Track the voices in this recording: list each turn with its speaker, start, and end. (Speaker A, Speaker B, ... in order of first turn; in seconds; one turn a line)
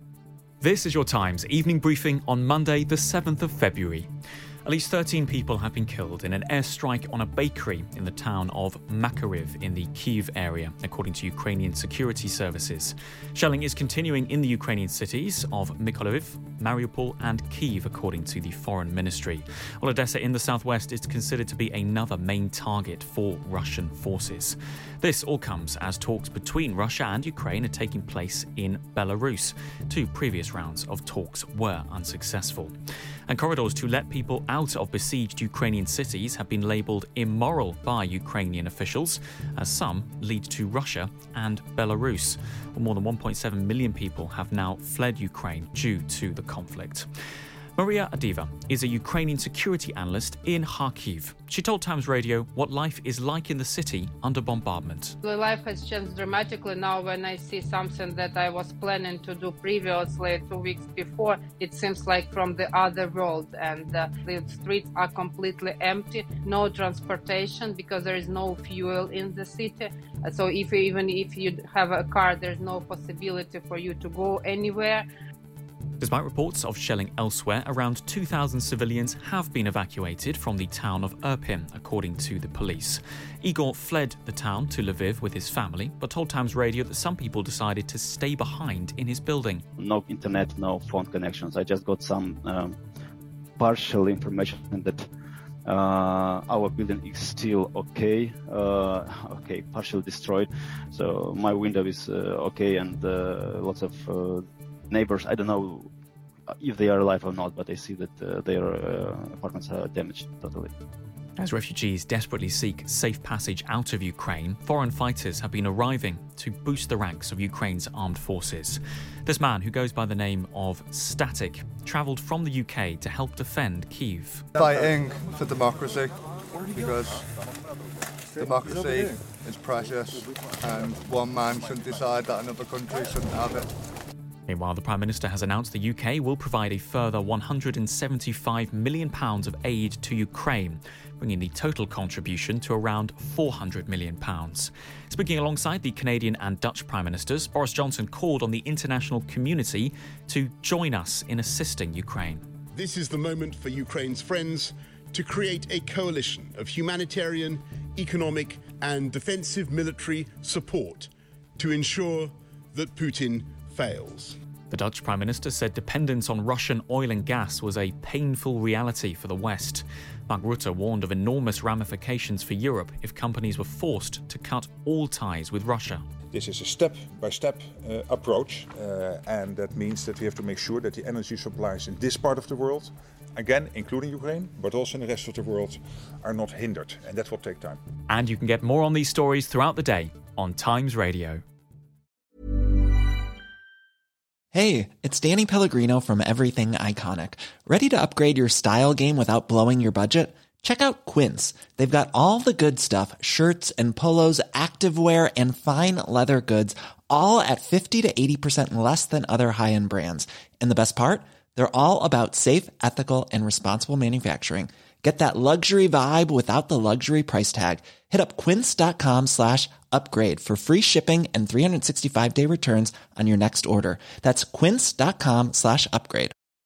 Speaker A: 0.6-4.1
Speaker A: 4.7-32.7
Speaker A: 33.3-47.1
Speaker A: 47.8-55.2
Speaker B: 55.2-75.1
Speaker A: 76.0-89.6
Speaker C: 89.8-92.8
Speaker C: 93.6-95.0
Speaker C: 95.7-105.9
Speaker C: 106.6-110.7
Speaker A: 111.4-124.4
Speaker D: 124.5-127.2
Speaker D: 128.3-133.7
Speaker A: 134.5-152.4
Speaker E: 152.7-164.3
Speaker A: 164.7-176.0
Speaker F: 176.3-187.8
Speaker A: 188.1-191.4
Speaker G: 194.5-226.3